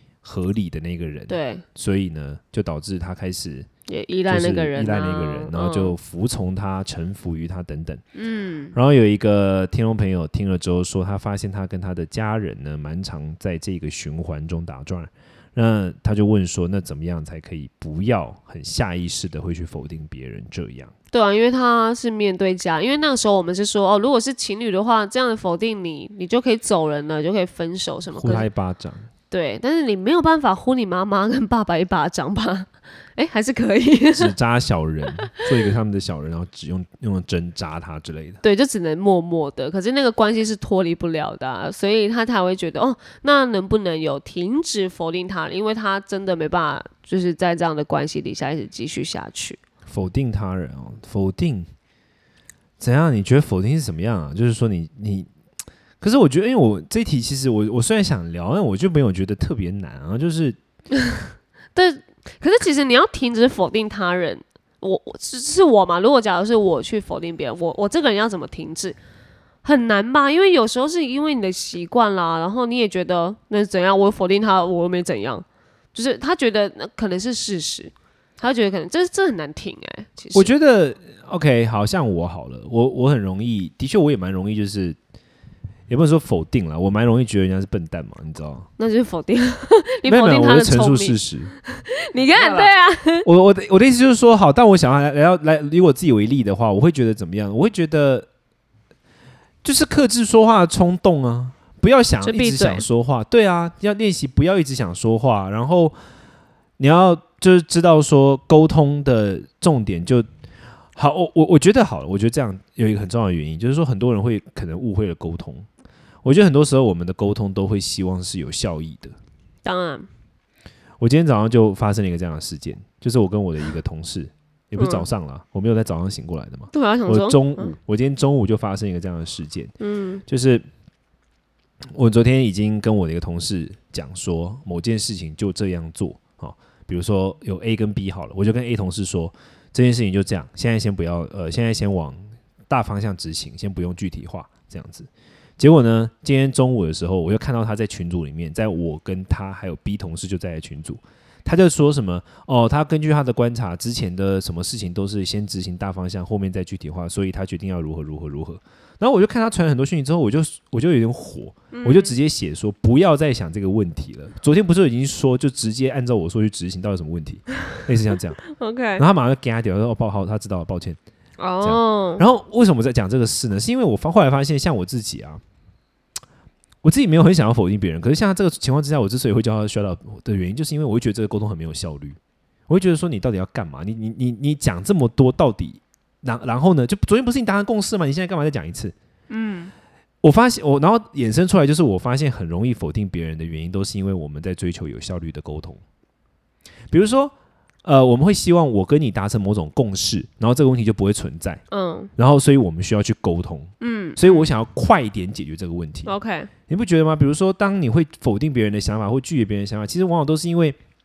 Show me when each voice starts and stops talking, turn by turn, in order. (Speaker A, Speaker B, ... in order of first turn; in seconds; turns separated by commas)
Speaker A: 0.2-3.7, Speaker B: 1.3-1.6, Speaker B: 3.9-6.0, Speaker A: 4.3-8.0, Speaker B: 8.2-8.8, Speaker A: 8.7-20.9, Speaker B: 21.1-28.5, Speaker A: 28.1-29.1, Speaker B: 29.3-34.3, Speaker A: 34.1-38.4, Speaker B: 38.4-49.6, Speaker A: 49.9-51.7, Speaker A: 52.8-55.3, Speaker A: 56.0-60.6, Speaker B: 61.8-69.0, Speaker B: 69.6-80.5, Speaker A: 80.3-85.0, Speaker A: 85.9-88.7, Speaker B: 88.8-93.3, Speaker A: 90.1-91.5, Speaker A: 92.3-92.7, Speaker A: 93.2-98.3, Speaker A: 99.6-106.0, Speaker B: 102.2-102.8, Speaker A: 106.8-110.3, Speaker A: 111.0-115.7, Speaker A: 116.2-119.1, Speaker B: 119.6-120.1, Speaker A: 121.0-129.7, Speaker B: 124.8-125.1, Speaker B: 126.7-127.7, Speaker B: 129.8-130.2, Speaker A: 130.3-130.7, Speaker A: 131.9-168.4, Speaker B: 161.7-162.1, Speaker B: 168.4-169.0, Speaker A: 169.0-171.0, Speaker B: 171.4-172.2, Speaker A: 171.6-175.4, Speaker A: 176.8-188.9, Speaker B: 189.3-189.7, Speaker A: 190.2-195.8, Speaker A: 196.9-197.3, Speaker A: 197.8-201.6, Speaker B: 201.7-202.1, Speaker A: 202.2-206.1, Speaker B: 203.8-204.5, Speaker B: 206.1-206.5, Speaker A: 206.7-210.8